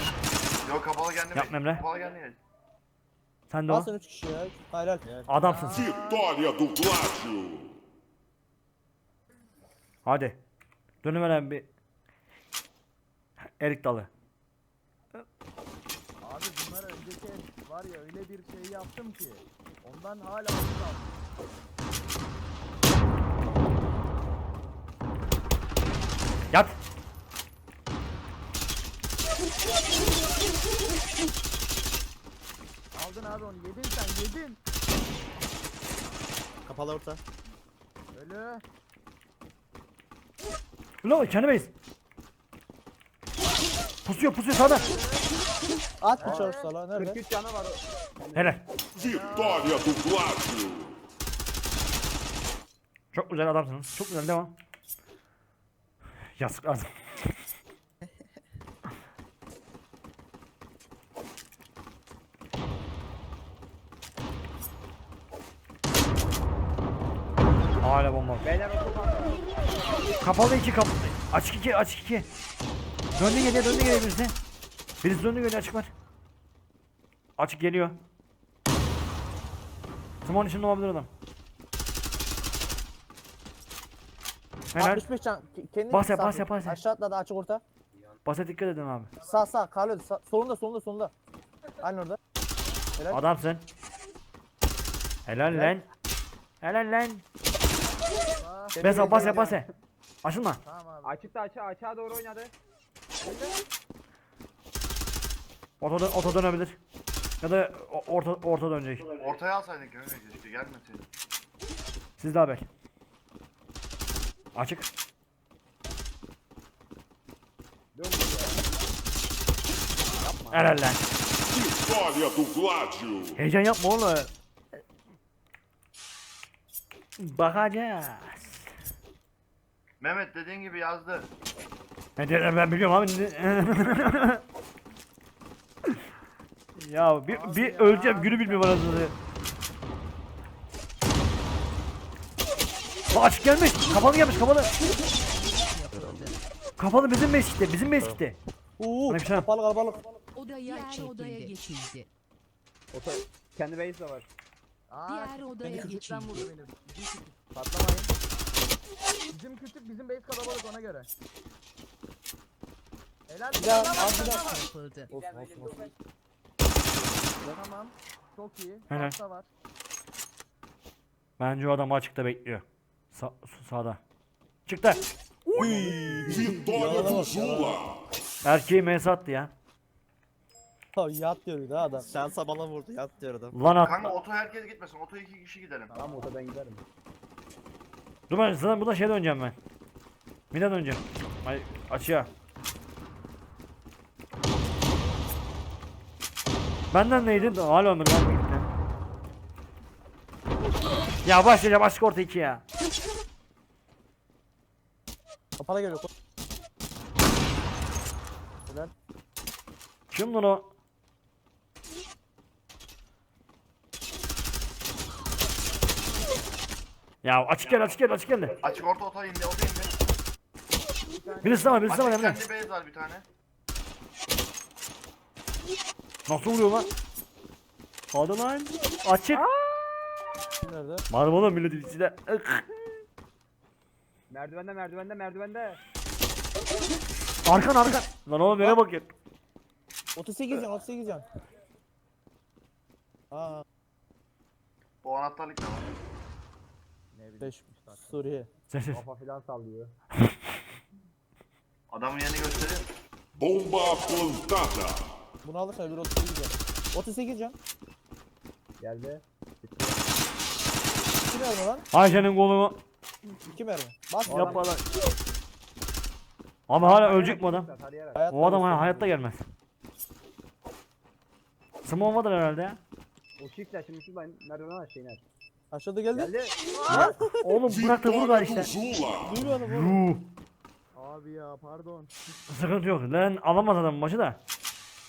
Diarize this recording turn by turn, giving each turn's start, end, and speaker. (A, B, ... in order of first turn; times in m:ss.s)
0:00.6-0:02.4 A
0:01.3-0:01.8 B
0:03.5-0:03.9 B
0:03.7-0:05.1 C
0:05.3-0:05.9 B
0:05.3-0:06.3 D
0:05.7-0:07.7 E
0:10.0-0:10.4 B
0:11.0-0:11.6 B
0:13.6-0:14.1 B
0:16.2-0:21.2 D
0:26.5-0:26.8 B
0:32.9-0:34.6 D
0:36.6-0:37.2 F
0:38.1-0:38.6 D
0:41.0-0:41.7 B
0:44.0-0:44.8 B
0:44.6-0:45.3 D
0:46.0-0:47.2 C
0:46.2-0:46.7 D
0:46.2-0:48.6 G
0:48.3-0:48.6 B
0:49.0-0:51.0 E
0:49.0-0:49.7 D
0:53.1-0:54.5 B
0:56.4-0:57.4 B
1:07.8-1:08.5 B
1:08.4-1:09.6 G
1:10.2-1:12.3 B
1:13.2-1:14.3 B
1:15.0-1:15.9 B
1:17.4-1:18.0 B
1:20.2-1:21.1 B
1:24.7-1:25.0 B
1:24.8-1:27.6 C
1:25.9-1:26.8 B
1:28.2-1:29.1 B
1:29.2-1:31.1 C
1:31.8-1:32.2 C
1:33.0-1:33.2 C
1:33.1-1:33.6 B
1:35.2-1:35.8 B
1:35.5-1:35.8 C
1:36.6-1:37.2 B
1:38.4-1:38.8 D
1:38.8-1:39.6 C
1:38.8-1:39.6 B
1:40.2-1:40.6 B
1:40.6-1:41.3 D
1:41.0-1:42.5 G
1:45.8-1:46.8 B
1:47.4-1:49.1 B
1:49.1-1:51.1 A
1:52.2-1:52.6 B
1:54.5-1:54.9 B
1:57.9-1:58.8 G
2:00.2-2:00.8 G
2:00.5-2:01.0 B
2:01.4-2:03.4 E
2:03.4-2:04.3 B
2:07.2-2:08.7 B
2:10.0-2:11.3 A
2:12.2-2:14.4 B
2:16.8-2:19.1 B
2:17.3-2:19.1 D
2:23.1-2:24.7 B
2:24.8-2:26.4 H
2:26.8-2:28.4 B
2:28.8-2:30.0 C
2:29.1-2:29.5 B
2:30.3-2:32.1 H
2:32.9-2:34.2 G
2:34.9-2:37.4 D
2:35.1-2:36.4 H
2:35.6-2:36.0 C
2:37.5-2:38.1 G
2:39.3-2:41.1 D
2:43.3-2:44.4 D
2:43.6-2:44.4 C
2:43.8-2:45.1 H
2:45.1-2:45.9 G
2:47.5-2:49.5 D
2:48.9-2:49.1 B
2:51.4-2:54.0 B
2:54.6-2:55.8 B
2:55.5-2:57.4 G
2:55.5-2:57.8 C
2:56.3-2:58.0 E
2:58.4-2:59.5 B
3:00.9-3:02.1 C
3:02.1-3:03.6 F
3:03.5-3:04.2 B
3:03.8-3:05.9 A
3:05.9-3:06.3 D
3:06.0-3:06.8 G
3:08.3-3:09.6 B
3:10.5-3:12.3 B
3:16.9-3:18.7 B
3:21.2-3:22.6 B
3:25.6-3:26.1 C
3:28.7-3:28.9 C
3:30.1-3:30.7 B
3:37.2-3:38.6 B
3:38.6-3:39.9 A
3:41.1-3:41.9 D
3:41.4-3:42.4 B
3:41.8-3:43.2 A
3:46.3-3:46.9 B
3:48.1-3:49.4 B
3:49.3-3:50.0 G
3:50.6-3:51.0 C
3:51.1-3:52.7 B
3:54.3-3:55.8 G
3:57.4-3:59.1 B
3:58.5-3:58.8 C
4:00.2-4:01.2 C
4:03.3-4:03.6 C
4:05.0-4:05.9 A
4:07.1-4:08.3 D
4:07.4-4:08.5 C
4:08.7-4:09.0 B
4:08.9-4:09.9 G
4:11.9-4:12.9 A
4:13.4-4:15.1 E
4:15.4-4:17.6 C
4:18.8-4:20.0 G
4:21.2-4:21.8 C
4:21.9-4:22.8 B
4:23.4-4:24.6 C
4:24.3-4:24.8 B
4:24.3-4:24.6 G
4:26.7-4:27.7 B
4:26.8-4:28.2 G
4:28.1-4:29.1 C
4:28.3-4:29.4 B
4:31.8-4:32.8 B
4:33.4-4:35.2 G
4:35.7-4:36.3 C
4:36.1-4:37.0 G
4:36.8-4:37.1 D
4:36.9-4:37.4 C
4:37.0-4:38.7 B
4:37.7-4:39.4 E
4:39.2-4:40.0 C
4:39.4-4:40.2 B
4:41.0-4:42.1 D
4:42.5-4:44.4 B